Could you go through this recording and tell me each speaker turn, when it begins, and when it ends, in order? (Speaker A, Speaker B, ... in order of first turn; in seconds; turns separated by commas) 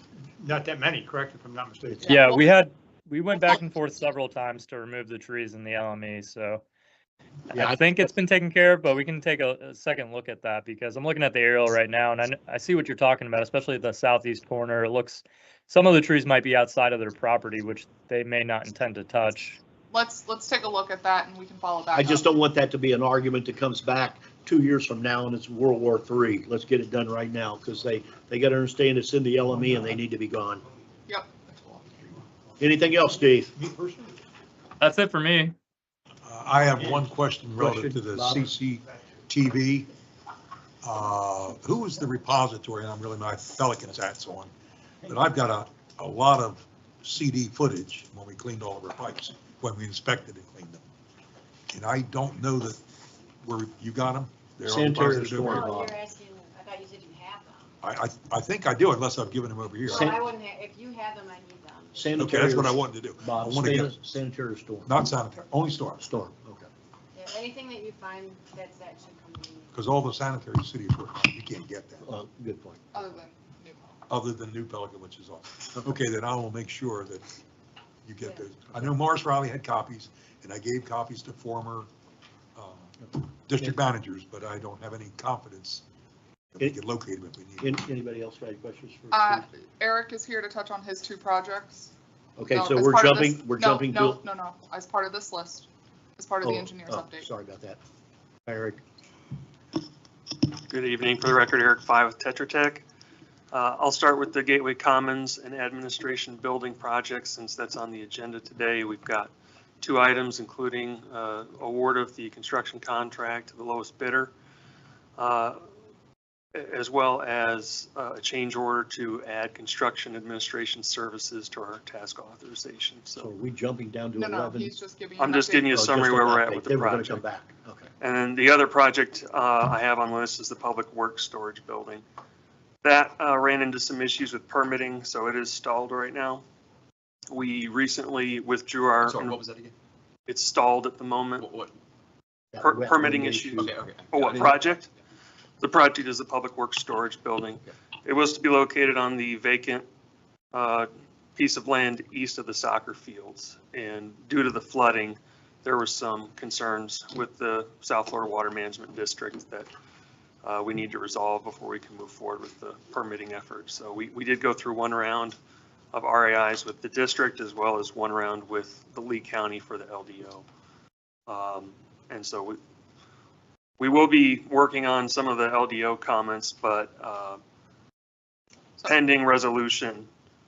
Speaker A: 0.3-2.0, Speaker B: 1.9-2.2, Speaker C: 2.1-6.6, Speaker D: 2.1-2.3, Speaker B: 7.5-7.9, Speaker C: 7.5-19.6, Speaker E: 19.9-22.3, Speaker B: 21.9-30.6, Speaker B: 32.6-33.5, Speaker A: 33.5-34.1, Speaker C: 34.8-35.5, Speaker F: 36.2-39.9, Speaker B: 37.6-38.5, Speaker F: 40.8-44.5, Speaker F: 45.0-50.8, Speaker F: 51.7-52.8, Speaker F: 53.4-55.6, Speaker B: 54.6-56.0, Speaker D: 55.4-57.7, Speaker F: 57.8-60.2, Speaker D: 59.8-62.0, Speaker B: 59.9-60.2, Speaker B: 62.0-64.9, Speaker F: 62.1-63.9, Speaker F: 64.8-66.0, Speaker B: 66.0-66.7, Speaker D: 67.1-69.7, Speaker F: 69.7-72.0, Speaker B: 72.0-73.1, Speaker E: 72.9-73.9, Speaker F: 74.1-77.3, Speaker F: 78.0-81.9, Speaker F: 82.5-85.8, Speaker F: 86.5-87.7, Speaker B: 87.6-89.4, Speaker E: 89.1-91.9, Speaker B: 92.4-94.2, Speaker E: 92.5-97.3, Speaker B: 96.4-97.8, Speaker B: 98.5-98.8, Speaker G: 100.7-102.8, Speaker G: 103.5-114.3, Speaker G: 115.2-115.6, Speaker G: 116.6-123.3, Speaker B: 123.2-124.8, Speaker E: 124.1-125.8, Speaker G: 125.2-127.2, Speaker B: 125.7-127.9, Speaker G: 128.0-132.0, Speaker G: 132.8-136.4, Speaker G: 137.3-139.4, Speaker H: 139.0-139.7, Speaker G: 140.3-141.5, Speaker H: 141.4-141.7, Speaker B: 142.5-143.7, Speaker G: 142.6-144.9, Speaker H: 143.6-144.6, Speaker G: 145.6-149.9, Speaker G: 150.5-159.7, Speaker G: 160.4-165.4, Speaker G: 165.9-170.4, Speaker G: 171.3-172.6, Speaker G: 173.8-177.4, Speaker G: 178.8-180.1